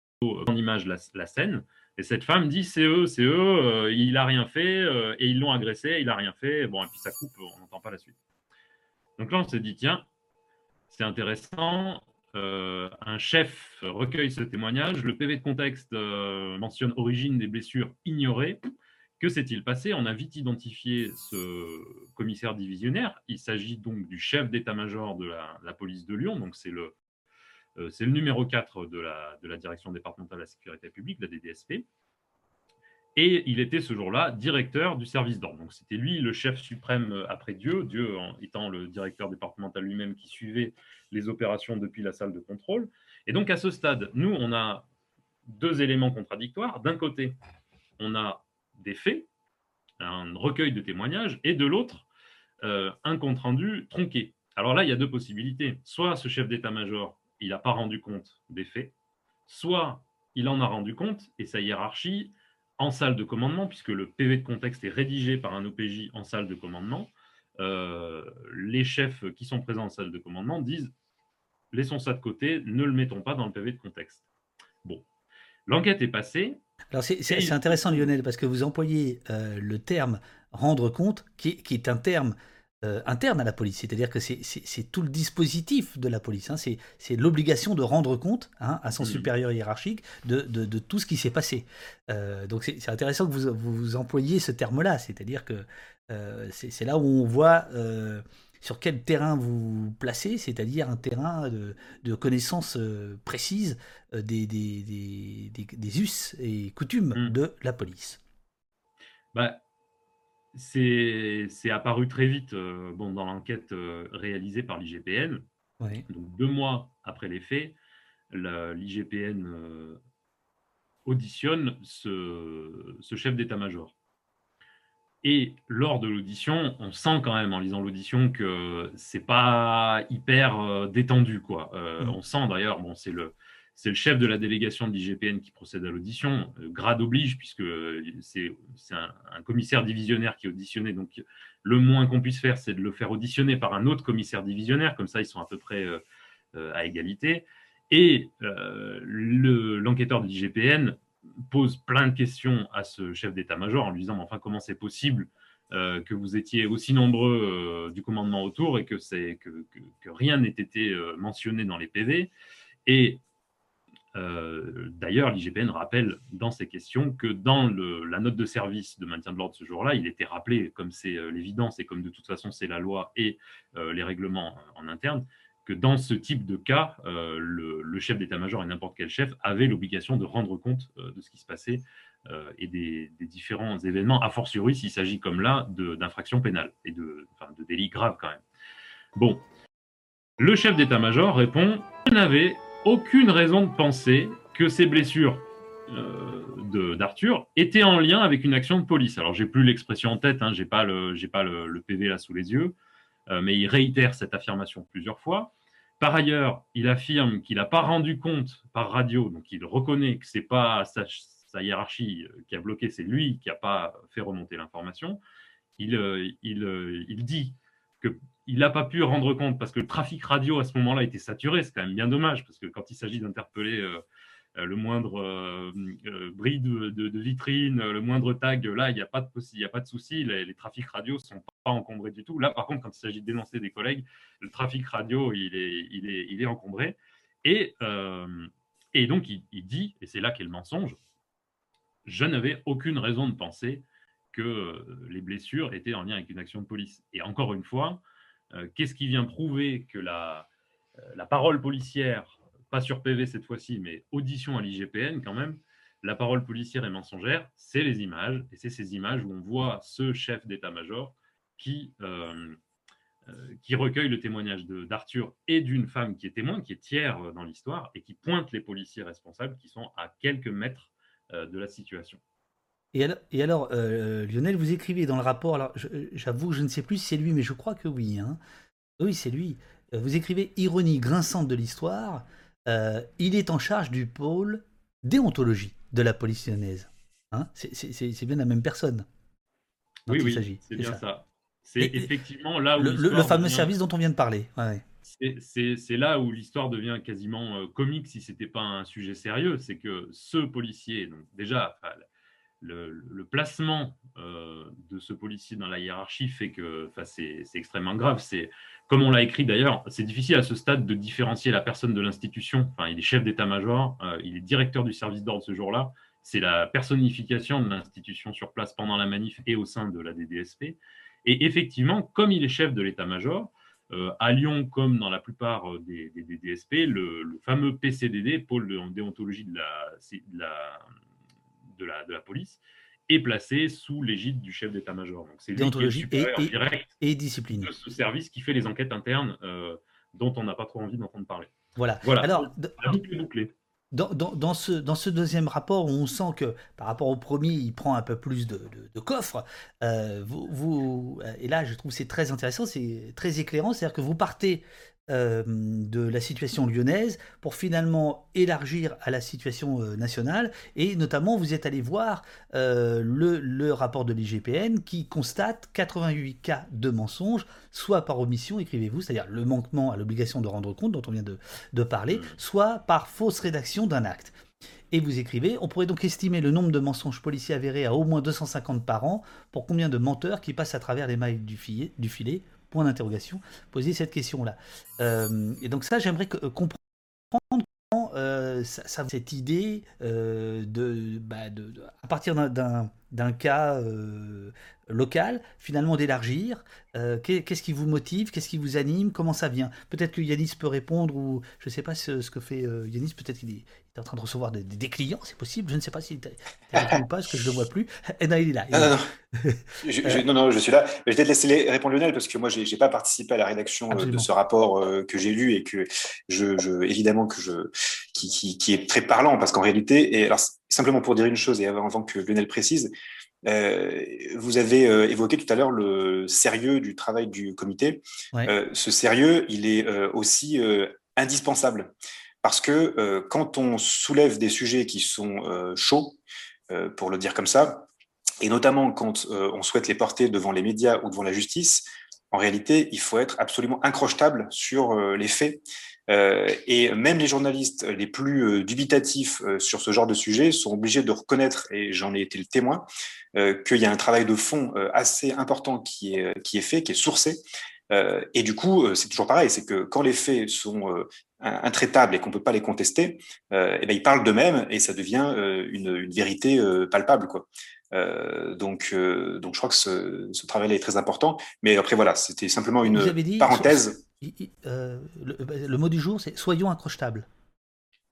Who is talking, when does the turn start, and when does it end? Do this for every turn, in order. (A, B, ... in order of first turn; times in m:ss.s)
0:00.2-0:08.2 A
0:09.2-0:10.1 A
0:10.9-0:18.6 A
0:19.2-0:26.9 A
0:27.8-0:31.8 A
0:33.2-0:44.8 A
0:45.4-0:47.4 A
0:48.0-0:49.3 A
0:50.0-0:52.1 A
0:52.6-0:58.9 A
0:59.5-1:10.9 A
1:11.7-1:14.3 A
1:15.7-1:16.6 A
1:16.9-1:48.2 B
1:17.3-1:18.1 A
1:29.0-1:29.3 A
1:49.3-1:49.6 A
1:50.5-1:55.4 A
1:55.8-1:56.0 B
1:56.1-1:57.8 A
1:58.3-2:00.0 A
2:01.0-2:03.9 A
2:05.2-2:26.0 A
2:26.5-2:42.3 A
2:42.8-2:43.2 A
2:44.1-3:08.4 A
3:09.2-3:09.4 A
3:10.4-3:22.7 A
3:23.3-3:35.2 A
3:35.8-3:44.0 A
3:44.6-4:01.0 A
4:02.0-4:22.6 A
4:23.2-4:32.2 A
4:32.9-4:38.4 B
4:39.0-4:49.0 B
4:50.1-4:51.0 B
4:50.1-4:53.7 A
4:51.8-4:52.1 B
4:52.8-4:54.8 B
4:55.0-5:02.0 A
5:02.6-5:30.9 A
5:31.7-5:36.9 A
5:35.6-5:37.7 B
5:37.6-5:41.5 A
5:41.8-5:43.0 B
5:42.0-5:43.5 A
5:43.9-6:14.4 B
6:12.1-6:12.4 A
6:14.9-6:50.2 B
6:48.7-6:49.1 C
6:49.8-7:02.9 C
6:53.9-6:54.3 B
7:03.4-7:11.9 C
7:12.4-7:16.2 C
7:16.7-7:17.8 C
7:18.4-7:54.0 C
7:52.9-7:57.3 B